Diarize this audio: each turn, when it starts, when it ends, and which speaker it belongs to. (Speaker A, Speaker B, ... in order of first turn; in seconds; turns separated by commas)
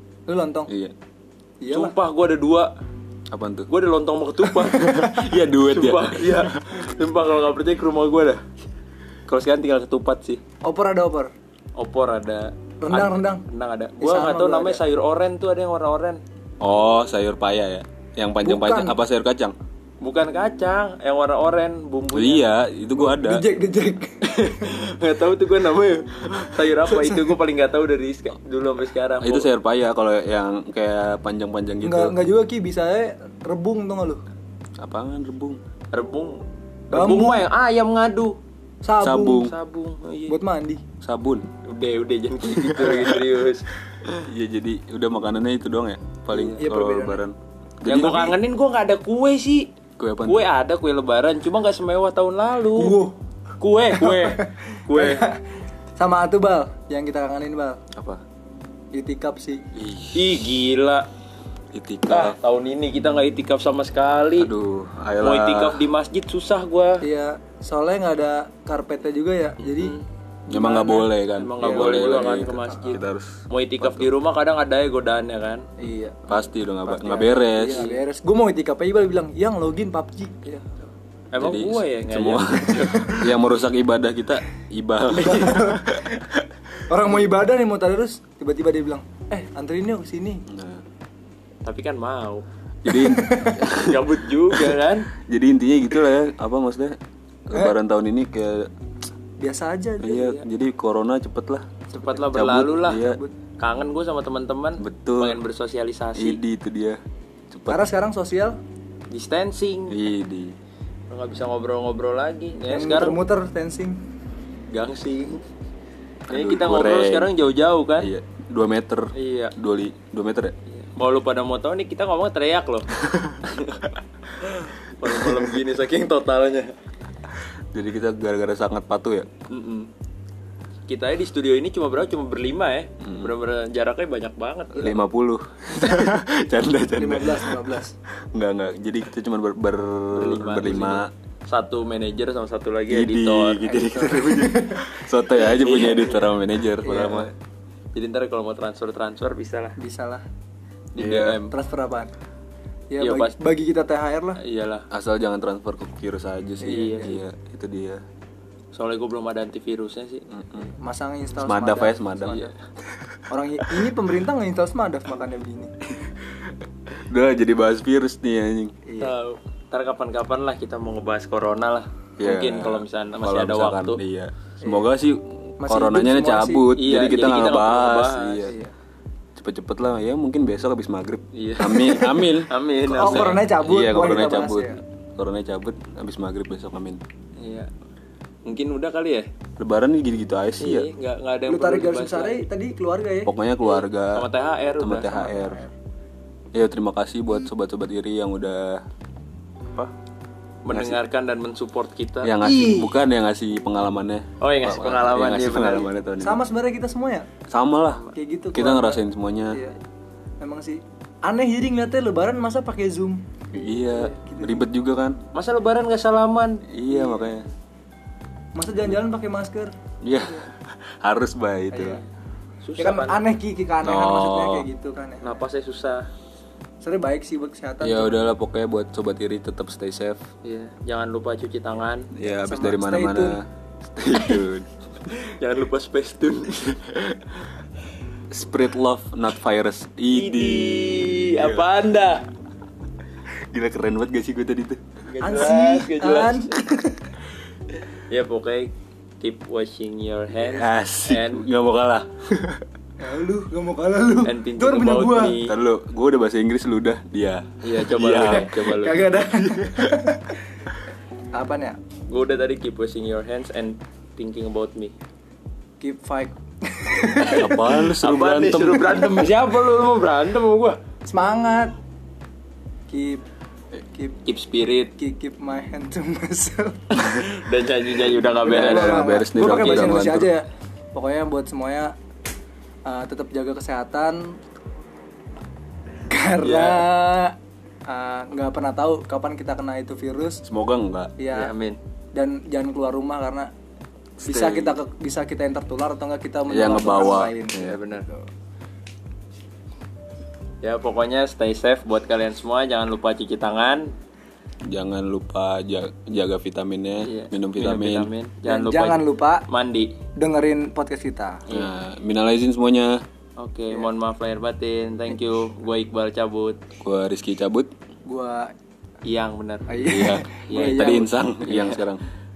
Speaker A: 0.3-0.7, Speaker B: 0.7-0.9, Speaker A: 1.6-1.9, Speaker C: 1.7-2.7, Speaker B: 3.3-3.7, Speaker C: 3.7-4.9, Speaker A: 4.7-5.2, Speaker B: 4.7-6.5, Speaker C: 5.6-8.4, Speaker C: 9.3-10.4, Speaker A: 10.6-11.3, Speaker C: 11.8-16.2, Speaker A: 12.8-13.4, Speaker A: 14.0-14.8, Speaker B: 16.6-19.5, Speaker A: 18.4-19.0, Speaker C: 20.0-22.4, Speaker B: 22.1-23.5, Speaker A: 22.9-24.7, Speaker C: 24.2-29.5, Speaker A: 26.7-27.4, Speaker B: 29.2-32.2, Speaker A: 31.8-34.2, Speaker B: 34.8-35.6, Speaker C: 35.9-36.4, Speaker C: 36.9-38.4, Speaker A: 36.9-37.5, Speaker A: 38.8-39.5, Speaker B: 39.0-39.5, Speaker C: 39.4-40.4, Speaker A: 40.3-40.8, Speaker B: 41.0-41.5, Speaker C: 41.6-43.7, Speaker B: 42.6-43.1, Speaker B: 44.2-48.4, Speaker A: 46.3-47.2, Speaker C: 47.8-49.7, Speaker B: 50.0-50.5, Speaker C: 50.2-53.0, Speaker A: 52.8-53.1, Speaker C: 53.6-55.2, Speaker A: 53.9-55.4, Speaker A: 56.0-57.8, Speaker B: 58.0-58.2, Speaker A: 58.9-59.6, Speaker B: 59.7-60.4, Speaker C: 60.1-61.1, Speaker B: 61.7-62.4, Speaker C: 62.1-64.5, Speaker B: 64.3-65.9, Speaker C: 65.2-67.0, Speaker A: 67.0-70.0, Speaker C: 69.6-70.0, Speaker A: 70.5-72.7, Speaker B: 70.5-74.1, Speaker C: 71.4-75.6, Speaker A: 75.8-80.8, Speaker B: 76.3-77.8, Speaker C: 77.7-78.0, Speaker C: 81.3-83.1, Speaker B: 81.4-86.4, Speaker A: 82.8-83.3, Speaker A: 85.1-86.2, Speaker A: 86.9-90.4, Speaker B: 90.5-90.8, Speaker C: 91.6-92.4, Speaker B: 92.8-97.0, Speaker A: 92.9-93.6, Speaker C: 93.8-95.1, Speaker B: 97.5-98.7, Speaker A: 97.5-97.8, Speaker A: 99.4-100.2, Speaker B: 100.0-101.6, Speaker C: 100.2-100.4, Speaker A: 101.9-102.3, Speaker C: 102.1-103.0, Speaker B: 102.3-103.2, Speaker A: 102.8-103.3, Speaker C: 103.6-106.4, Speaker B: 104.8-105.4, Speaker B: 106.1-107.0, Speaker B: 107.5-107.8, Speaker A: 107.7-108.6, Speaker C: 109.1-110.0, Speaker B: 109.9-110.5, Speaker C: 111.1-113.2, Speaker A: 112.7-114.0, Speaker C: 114.7-115.4, Speaker B: 116.3-117.3, Speaker C: 116.3-118.1, Speaker B: 118.0-120.5, Speaker C: 119.2-119.5, Speaker C: 121.0-122.9, Speaker B: 123.0-123.4, Speaker C: 123.4-126.7, Speaker B: 127.7-129.3, Speaker C: 129.5-129.9, Speaker C: 130.9-135.0, Speaker B: 133.0-133.3, Speaker B: 134.8-137.6, Speaker A: 137.0-137.9, Speaker B: 138.3-141.1, Speaker C: 140.1-143.8, Speaker B: 142.9-147.3, Speaker A: 143.7-144.9, Speaker C: 145.4-146.3, Speaker A: 146.8-147.3, Speaker C: 147.9-149.7, Speaker A: 149.8-150.2, Speaker C: 150.9-151.5, Speaker B: 151.0-151.4, Speaker A: 151.5-152.1, Speaker A: 152.9-154.4, Speaker C: 153.0-153.3, Speaker C: 154.4-154.8, Speaker B: 154.9-158.0, Speaker A: 156.6-157.2, Speaker C: 156.7-157.1, Speaker C: 158.7-160.2, Speaker B: 160.3-160.7, Speaker A: 160.8-162.5, Speaker B: 161.4-162.5, Speaker C: 162.2-162.5, Speaker A: 163.3-165.7, Speaker B: 167.1-168.8, Speaker A: 168.9-169.1, Speaker C: 169.0-174.0, Speaker B: 172.2-178.6, Speaker A: 174.6-174.9, Speaker A: 175.6-176.7, Speaker C: 176.7-178.5, Speaker A: 178.4-178.7, Speaker B: 179.4-187.0, Speaker C: 181.3-183.4, Speaker A: 181.8-182.3, Speaker A: 182.9-184.8, Speaker C: 187.4-187.7, Speaker C: 188.4-189.3, Speaker B: 189.6-190.9, Speaker C: 190.6-192.4, Speaker A: 191.5-193.3, Speaker B: 193.2-194.3, Speaker C: 193.6-195.2, Speaker B: 194.8-195.6, Speaker A: 195.1-195.7, Speaker B: 196.5-198.8, Speaker C: 200.7-202.9, Speaker B: 200.7-201.0, Speaker B: 202.2-206.4, Speaker C: 204.4-205.9, Speaker A: 206.2-207.3, Speaker B: 207.5-209.6, Speaker A: 208.1-209.7, Speaker A: 210.4-213.2, Speaker B: 213.5-215.2, Speaker A: 213.9-214.7, Speaker C: 215.3-216.6, Speaker B: 216.7-217.5, Speaker A: 216.9-217.3, Speaker A: 218.5-220.4, Speaker B: 220.0-222.0, Speaker A: 221.7-222.0, Speaker C: 222.6-223.2, Speaker A: 222.8-225.4, Speaker B: 223.8-224.7, Speaker C: 225.2-226.1, Speaker A: 226.8-228.3, Speaker B: 227.8-230.2, Speaker C: 230.4-232.1, Speaker B: 232.1-234.7, Speaker A: 232.4-233.4, Speaker C: 235.1-236.8, Speaker B: 238.3-241.7, Speaker C: 240.1-242.2, Speaker B: 243.5-244.8, Speaker C: 245.1-246.5, Speaker A: 245.2-247.1, Speaker C: 248.1-251.5, Speaker B: 250.6-252.6, Speaker A: 253.0-255.4, Speaker C: 254.2-255.5, Speaker B: 255.4-258.7, Speaker C: 257.6-259.1, Speaker A: 258.3-260.4, Speaker A: 261.3-261.8, Speaker C: 262.1-264.9, Speaker A: 265.8-267.8, Speaker C: 267.2-270.8, Speaker B: 267.3-269.3, Speaker A: 271.1-271.7, Speaker A: 272.9-273.2, Speaker C: 274.2-274.9, Speaker A: 274.9-276.7, Speaker C: 276.9-280.0, Speaker A: 278.4-281.9, Speaker B: 278.4-280.3, Speaker A: 282.9-284.2, Speaker A: 286.1-287.4, Speaker C: 286.4-286.9, Speaker A: 287.9-290.4, Speaker B: 290.4-291.1, Speaker A: 291.2-291.5, Speaker C: 291.3-291.8, Speaker A: 292.1-293.5, Speaker B: 294.2-294.8, Speaker A: 294.2-298.2, Speaker B: 296.5-297.8, Speaker C: 297.5-298.1, Speaker C: 300.6-303.9, Speaker B: 304.7-308.1, Speaker C: 307.0-309.9, Speaker A: 308.4-309.4, Speaker A: 310.2-311.4, Speaker B: 311.5-313.0, Speaker C: 313.4-316.6, Speaker B: 316.8-317.7, Speaker A: 318.1-318.5, Speaker C: 319.0-319.7, Speaker A: 319.7-321.1, Speaker B: 319.9-322.0, Speaker C: 320.5-321.8